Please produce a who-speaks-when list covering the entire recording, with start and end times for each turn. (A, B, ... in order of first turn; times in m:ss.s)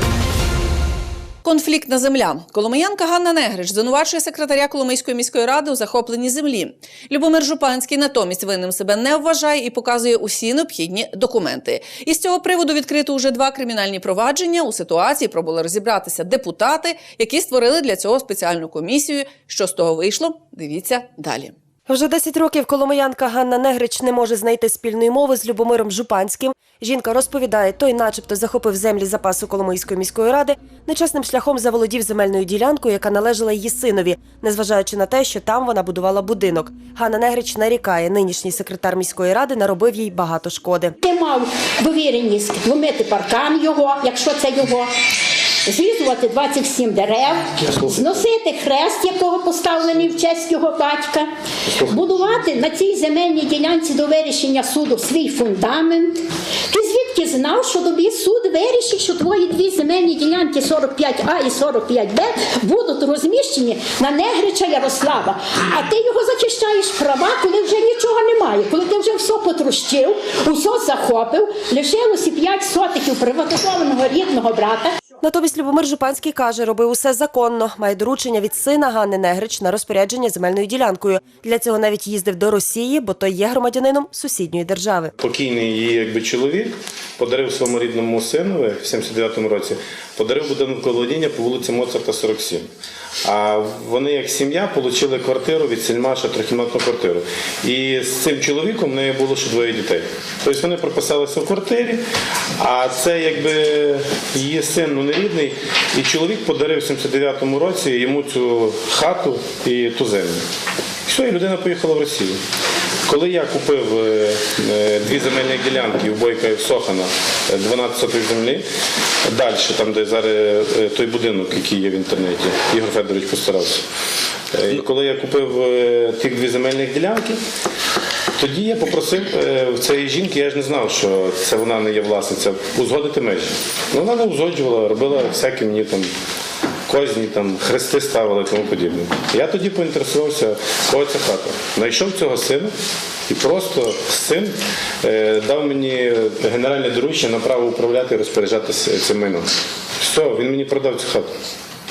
0:01.4-0:21.5 A
0:21.9-0:41.0 B
0:41.0-0:44.9 C
0:45.7-0:51.3 C
0:47.8-0:48.3 D
0:51.7-0:52.4 D
0:51.8-1:15.0 C
1:15.2-1:25.1 B
1:25.2-1:32.7 D
1:33.2-1:42.1 D
1:42.6-1:50.4 D
1:51.1-1:52.4 D
1:53.1-1:58.7 D
1:59.3-2:03.8 D
2:04.5-2:07.4 D
2:08.4-2:16.1 D
2:16.9-2:22.7 D
2:23.3-2:31.3 D